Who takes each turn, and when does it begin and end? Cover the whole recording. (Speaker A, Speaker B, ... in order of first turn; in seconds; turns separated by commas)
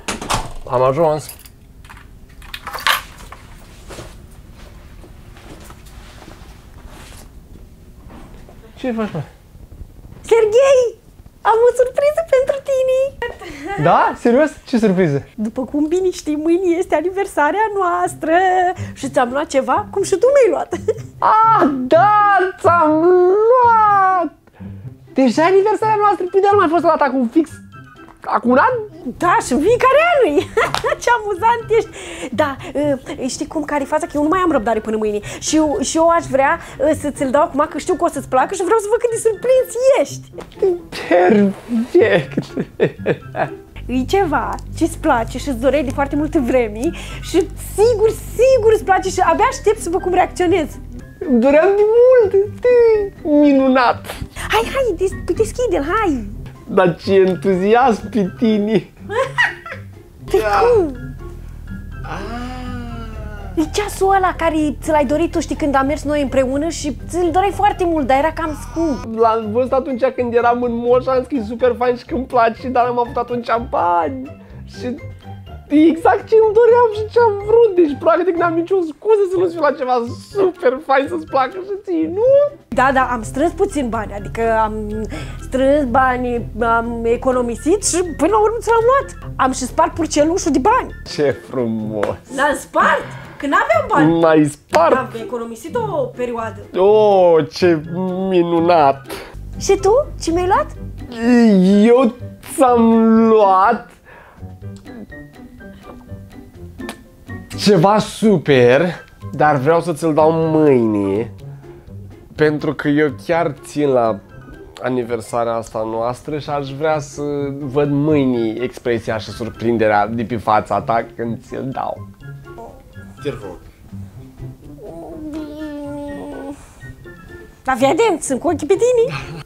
Speaker A: 0.6-1.3, Speaker A: 8.8-9.3, Speaker B: 10.2-13.7, Speaker A: 13.8-15.2, Speaker B: 15.3-20.8, Speaker A: 21.2-24.3, Speaker A: 25.1-27.6, Speaker A: 28.2-28.9, Speaker B: 29.0-40.4, Speaker A: 40.6-43.5, Speaker B: 43.9-50.8, Speaker A: 51.2-54.2, Speaker B: 54.5-56.4, Speaker A: 56.6-58.9, Speaker B: 60.3-61.1, Speaker A: 60.3-60.9, Speaker A: 62.0-63.2, Speaker B: 63.5-69.0, Speaker A: 69.0-75.0, Speaker A: 75.7-82.6, Speaker B: 82.7-91.0, Speaker A: 91.1-92.3, Speaker B: 92.3-94.2, Speaker A: 93.9-95.1, Speaker B: 94.8-96.7, Speaker A: 96.7-99.2, Speaker B: 99.6-100.7, Speaker A: 101.1-104.0, Speaker A: 107.5-111.3, Speaker A: 112.3-114.2, Speaker A: 114.8-122.0, Speaker A: 123.2-123.6, Speaker B: 124.8-126.5, Speaker B: 127.6-129.2